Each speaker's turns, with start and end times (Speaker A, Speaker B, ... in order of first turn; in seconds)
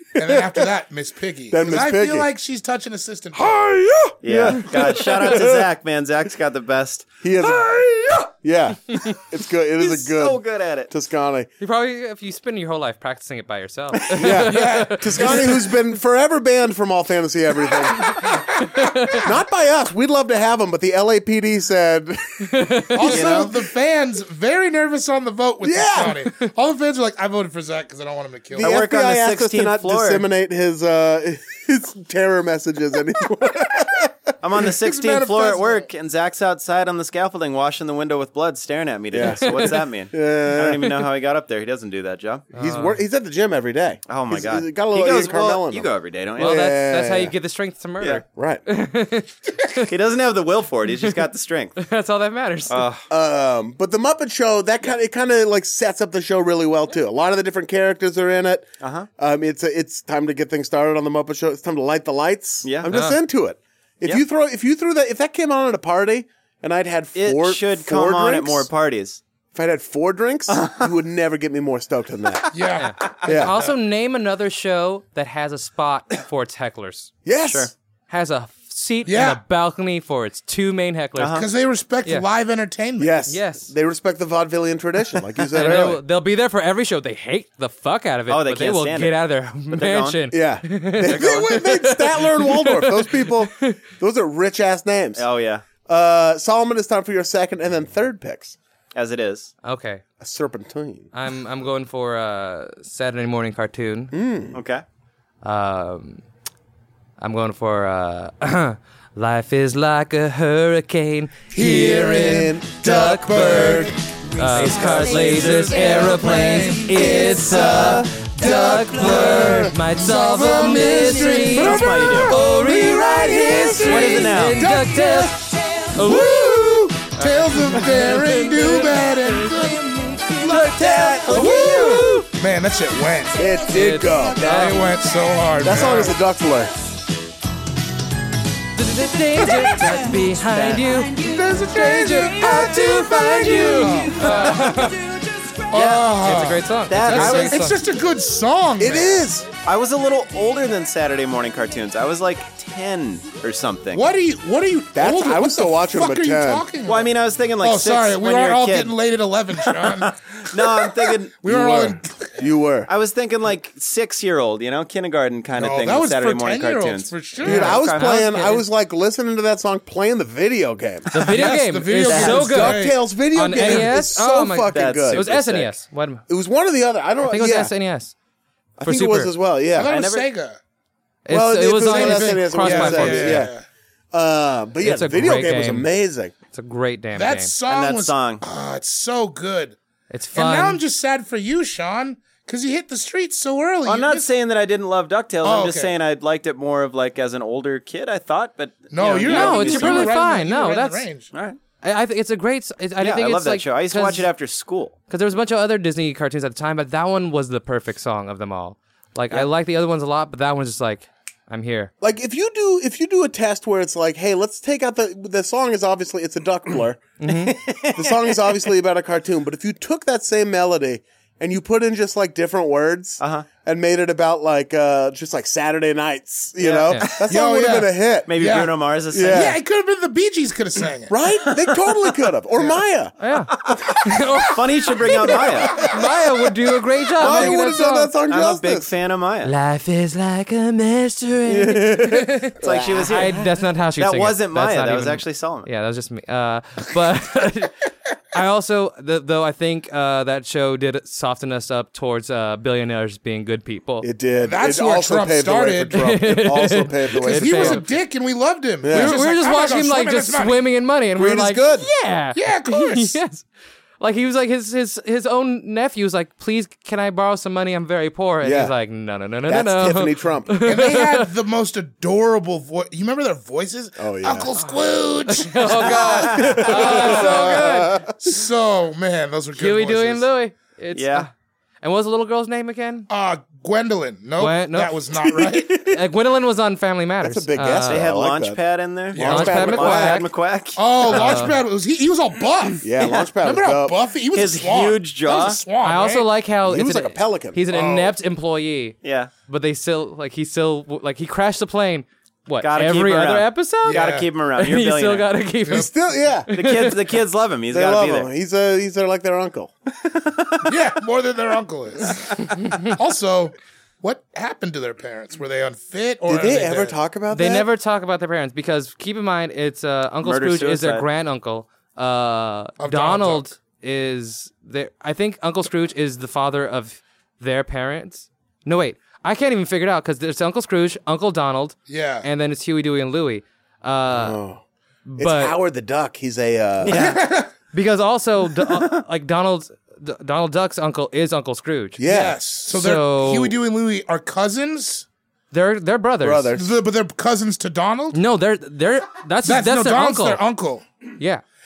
Speaker A: 0.2-0.7, 1.5-2.3, 3.3-5.7, 7.2-11.5, 14.1-18.5, 19.1-23.6, 25.6-26.2, 28.6-34.1, 39.1-41.1, 42.5-47.3, 48.2-48.6, 53.1-68.7, 69.5-72.5, 73.2-73.5, 77.2-77.7, 83.0-86.0, 90.3-95.2, 95.8-98.6, 100.2-101.1, 104.1-104.6, 111.6-114.0, 114.7-115.5, 117.5-119.8, 122.5-125.3, 126.0-126.9, 130.5-132.1, 133.3-134.8, 135.6-136.7, 148.8-149.5, 154.9-156.7, 161.4-162.9, 167.4-175.3, 176.3-177.7, 178.8-179.9, 181.3-183.6, 184.1-186.3, 212.0-217.2, 217.7-228.3, 229.1-229.6, 231.1-233.2, 233.7-234.0, 235.1-235.9, 237.2-238.9, 241.5-243.4, 254.0-257.8, 258.8-259.2, 261.2-261.9, 268.4-268.7, 269.5-270.5, 274.0-274.5, 276.3-278.1, 285.3-285.9, 287.2-290.2, 292.8-294.0, 296.6-297.6, 305.7-306.5, 307.7-309.7, 316.3-317.7, 334.1-334.6, 335.2-337.1, 342.0-342.4, 346.2-346.7
Speaker B: 0.2-3.6, 14.3-15.5, 22.9-28.8, 34.5-35.9, 72.5-73.7, 79.1-79.4, 81.4-83.2, 111.5-114.0, 114.6-122.4, 123.2-124.0, 124.6-125.3, 126.0-133.5, 134.4-136.2, 141.2-144.9, 145.7-149.2, 153.9-162.4, 165.5-167.9, 171.3-173.0, 179.7-180.6, 181.8-183.6, 187.2-189.8, 190.3-194.3, 195.4-195.9, 198.9-201.3, 227.3-231.2, 235.7-236.0, 254.4-256.1, 257.2-260.6, 262.4-263.2, 270.6-280.3, 283.1-285.9, 289.1-290.0, 290.8-292.9, 293.4-296.3, 297.7-298.1, 303.9-304.3, 305.7-305.9, 310.6-316.9, 322.8-323.5, 331.9-332.3, 336.9-337.5, 342.1-345.1, 346.5-348.2, 349.4-350.8
Speaker C: 4.2-7.2, 9.8-10.9, 23.1-23.5, 28.6-30.3, 34.4-42.5, 44.1-46.6, 49.9-51.8, 52.7-53.0, 58.8-59.1, 62.6-62.9, 67.2-69.2, 70.5-70.9, 77.4-77.7, 81.2-81.5, 88.3-89.2, 89.7-90.2, 91.1-91.5, 95.2-95.7, 98.9-99.5, 104.5-104.8, 114.5-118.1, 121.5-122.4, 123.8-124.7, 130.6-132.3, 140.5-140.8, 145.7-146.2, 146.9-147.7, 149.6-154.1, 156.9-159.0, 159.7-161.4, 162.9-168.6, 174.7-175.8, 179.8-180.3, 187.7-188.4, 193.8-200.2, 201.3-201.6, 203.0-205.0, 217.4-218.7, 223.2-223.5, 226.6-227.2, 228.3-229.5, 234.5-235.9, 237.2-237.6, 238.3-239.5, 242.6-245.7, 275.8-277.4, 280.9-281.3, 287.9-291.4, 293.0-293.3, 294.3-295.6, 299.0-299.3, 302.6-305.3, 306.5-308.3, 310.1-310.7, 320.2-321.1, 336.8-337.3, 338.7-339.0
Speaker D: 11.6-15.6, 18.8-19.2, 22.4-23.2, 39.2-39.7, 42.5-43.0, 46.4-49.9, 51.8-52.9, 62.9-63.2, 72.8-77.1, 78.1-81.4, 83.3-83.7, 85.5-93.8, 99.6-100.0, 101.1-104.1, 105.4-106.2, 107.2-126.6, 127.1-129.5, 130.4-132.2, 133.7-134.8, 138.7-145.0, 146.1-147.8, 168.0-168.4, 171.1-176.2, 177.2-178.1, 178.8-179.3, 181.3-183.5, 184.8-185.9, 186.5-187.5, 190.1-190.8, 199.2-201.1, 201.8-204.3, 205.1-211.9, 217.2-217.6, 233.2-234.7, 235.7-238.1, 239.4-247.8, 248.3-254.1, 255.9-257.9, 258.9-263.5, 264.0-271.3, 274.6-277.9, 279.6-281.3, 281.8-283.1, 284.4-285.0, 285.9-288.1, 289.2-290.3, 291.1-291.6, 295.8-305.9, 306.5-307.0, 317.3-334.4, 335.1-335.6, 337.7-342.0, 342.7-343.6, 345.5-346.5, 348.1-350.4